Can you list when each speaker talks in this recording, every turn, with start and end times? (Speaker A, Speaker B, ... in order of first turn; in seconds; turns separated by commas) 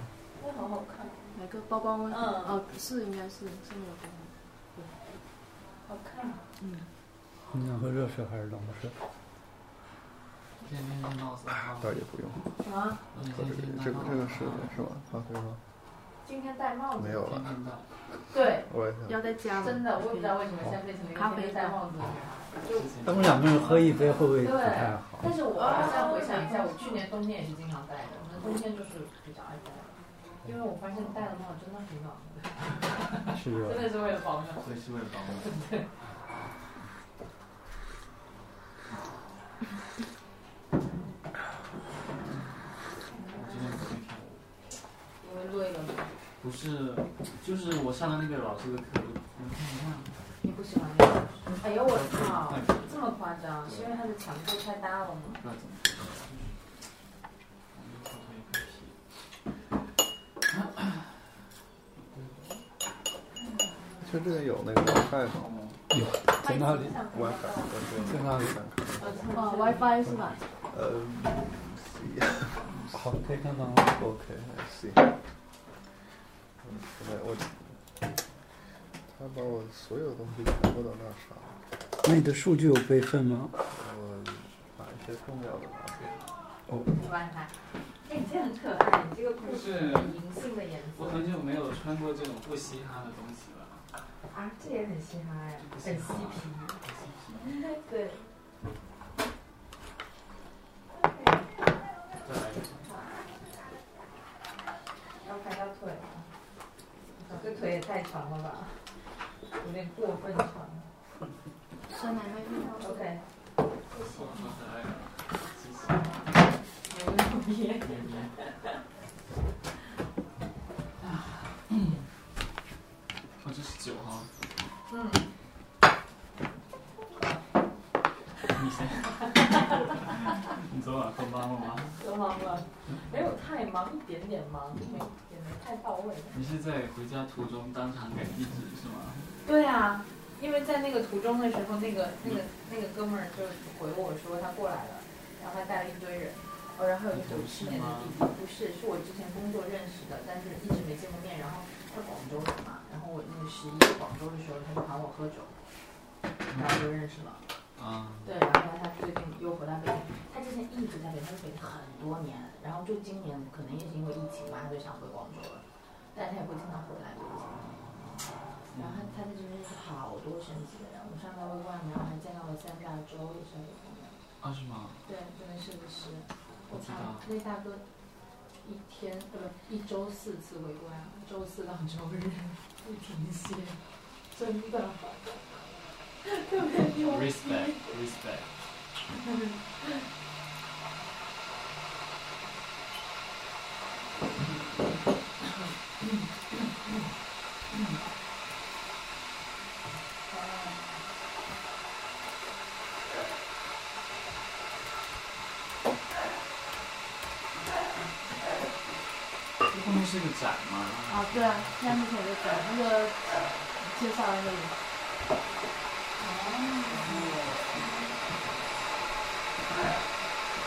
Speaker A: 0.4-1.3, Speaker B: 1.3-4.3, Speaker A: 2.1-2.6, Speaker A: 5.8-6.4, Speaker B: 6.6-6.9, Speaker C: 7.5-8.9, Speaker D: 10.6-12.0, Speaker E: 11.8-12.5, Speaker A: 12.6-13.0, Speaker D: 13.1-14.7, Speaker E: 13.2-15.6, Speaker A: 16.2-17.2, Speaker E: 16.9-17.6, Speaker D: 17.2-17.8, Speaker A: 18.3-18.7, Speaker E: 18.6-19.3, Speaker B: 19.1-20.4, Speaker A: 19.6-22.9, Speaker B: 21.1-21.8, Speaker D: 22.7-24.2, Speaker C: 23.0-25.3, Speaker A: 24.4-32.8, Speaker B: 25.6-26.5, Speaker C: 33.3-34.0, Speaker A: 33.6-34.6, Speaker D: 34.6-35.5, Speaker A: 35.4-35.9, Speaker A: 43.1-43.8, Speaker D: 43.3-44.4, Speaker A: 45.2-46.2, Speaker D: 46.4-50.1, Speaker A: 50.4-55.4, Speaker D: 51.9-53.1, Speaker D: 53.6-53.9, Speaker D: 55.4-56.5, Speaker D: 57.7-58.9, Speaker D: 60.6-60.9, Speaker D: 62.1-62.6, Speaker E: 64.0-65.6, Speaker D: 65.4-65.8, Speaker C: 65.9-67.0, Speaker E: 67.0-69.3, Speaker C: 68.0-68.6, Speaker A: 69.0-69.7, Speaker B: 69.3-70.4, Speaker E: 70.7-72.8, Speaker C: 72.9-74.0, Speaker E: 73.8-75.1, Speaker E: 76.6-77.8, Speaker E: 79.1-81.6, Speaker C: 82.0-83.5, Speaker E: 83.7-86.0, Speaker D: 85.9-86.3, Speaker A: 86.9-87.5, Speaker A: 88.0-91.3, Speaker D: 89.4-90.2, Speaker D: 91.0-93.8, Speaker A: 94.3-96.8, Speaker D: 95.7-97.6, Speaker A: 97.7-98.1, Speaker A: 101.0-101.3, Speaker D: 102.2-102.9, Speaker A: 105.2-106.3, Speaker A: 107.2-108.7, Speaker A: 109.6-110.8, Speaker B: 111.9-113.0, Speaker A: 112.8-113.2, Speaker D: 114.0-116.3, Speaker A: 116.9-118.1, Speaker D: 117.8-118.3, Speaker D: 121.7-121.9, Speaker D: 123.4-124.3, Speaker A: 124.9-125.2, Speaker D: 128.5-131.9, Speaker A: 132.0-136.4, Speaker D: 136.3-139.3, Speaker A: 139.4-155.5, Speaker D: 147.1-148.2, Speaker D: 156.5-156.8, Speaker A: 156.5-157.4, Speaker D: 157.8-158.3, Speaker A: 158.2-167.8, Speaker D: 168.7-169.1, Speaker A: 168.7-174.2, Speaker D: 174.4-175.0, Speaker A: 175.1-177.8, Speaker D: 176.7-177.3, Speaker A: 178.6-183.8, Speaker A: 184.3-185.2, Speaker A: 186.2-187.6, Speaker D: 186.8-188.7, Speaker A: 200.3-200.9, Speaker D: 209.7-211.5, Speaker B: 211.1-214.7, Speaker A: 216.2-217.3, Speaker D: 217.1-217.6